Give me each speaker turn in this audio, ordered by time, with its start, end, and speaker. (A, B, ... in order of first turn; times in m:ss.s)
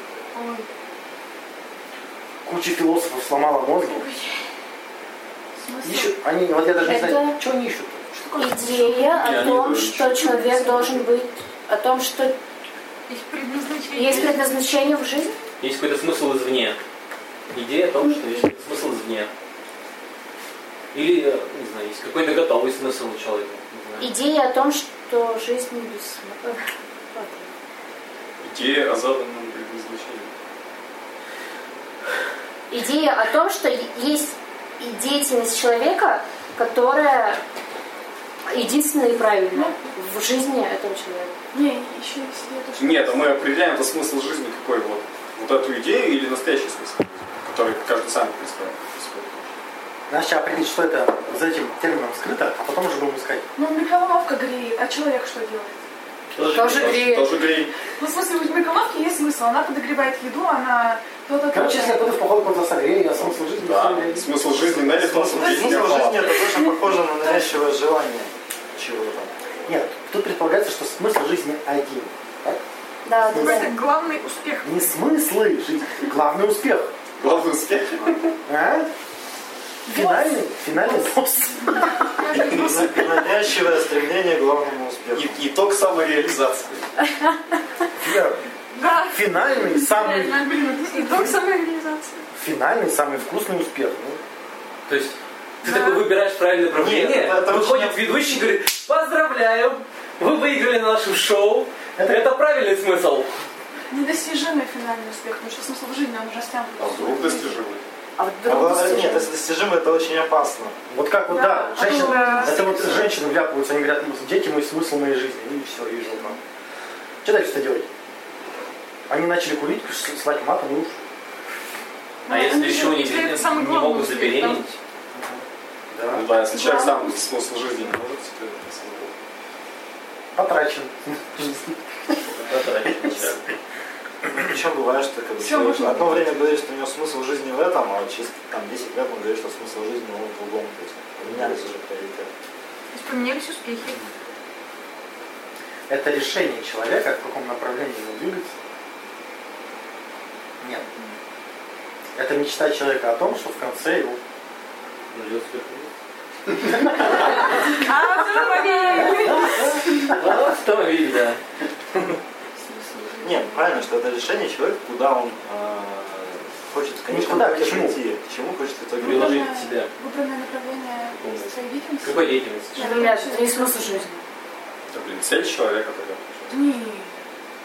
0:00.3-0:00.6 A
0:02.4-0:04.1 B
0:05.6-0:06.2 A
0:05.8-0:08.0 B
0:06.8-0:07.4 C
0:08.1-0:09.2 A
0:08.4-0:12.4 C
0:09.1-0:10.6 D
0:10.6-0:10.9 A
0:13.1-0:14.3 E
0:13.9-0:15.4 C
0:15.6-0:16.8 F
0:17.5-0:19.3 F
0:18.0-0:18.4 C
0:20.9-0:24.1 F
0:24.0-0:26.6 C
0:27.1-0:27.5 C
0:28.4-0:30.3 D
0:32.7-0:37.4 C
0:38.4-0:41.3 C
0:41.5-0:43.5 A
0:42.8-0:49.5 D
0:50.1-0:53.4 B
0:53.6-0:55.8 A
0:56.3-0:57.7 D
0:56.4-0:57.0 F
0:56.5-0:57.3 C
0:58.0-1:02.1 A
1:01.5-1:04.6 B
1:03.1-1:06.4 D
1:04.8-1:09.3 G
1:05.4-1:07.5 A
1:09.7-1:12.6 B
1:13.0-1:13.7 C
1:13.2-1:13.7 B
1:13.4-1:14.7 E
1:14.6-1:16.9 B
1:17.2-1:18.3 D
1:18.4-1:18.9 B
1:19.9-1:22.0 B
1:19.9-1:20.3 A
1:22.2-1:23.0 A
1:22.4-1:25.4 G
1:25.1-1:26.9 D
1:28.0-1:28.4 B
1:28.7-1:29.2 E
1:29.1-1:30.4 B
1:29.7-1:32.2 E
1:30.5-1:31.4 A
1:32.3-1:34.2 B
1:34.9-1:43.3 F
1:35.6-1:36.0 E
1:36.7-1:38.4 G
1:42.0-1:42.2 B
1:43.9-1:47.6 A
1:46.8-1:47.8 D
1:48.2-1:49.3 C
1:48.4-1:50.8 G
1:50.9-1:56.4 B
1:51.3-1:52.7 A
1:51.8-1:52.8 E
1:57.2-1:57.9 B
1:59.1-2:01.0 B
2:02.3-2:04.7 F
2:02.3-2:03.0 A
2:02.3-2:04.6 E
2:05.1-2:06.3 B
2:06.1-2:09.1 D
2:06.5-2:07.3 A
2:10.4-2:12.2 B
2:12.3-2:13.4 F
2:14.4-2:22.3 G
2:15.4-2:16.3 A
2:22.9-2:24.0 E
2:25.9-2:28.5 B
2:30.6-2:30.8 B
2:32.2-2:34.2 B
2:35.1-2:35.9 F
2:36.6-2:37.3 B
2:37.8-2:39.7 E
2:38.1-2:39.4 A
2:38.9-2:40.4 B
2:40.0-2:41.4 F
2:42.5-2:43.9 A
2:43.2-2:49.5 G
2:47.1-2:48.0 B
2:49.0-2:49.9 F
2:49.0-2:54.2 A
2:51.1-2:52.9 F
2:52.8-2:54.1 C
2:54.9-2:56.6 D
2:56.5-2:57.2 A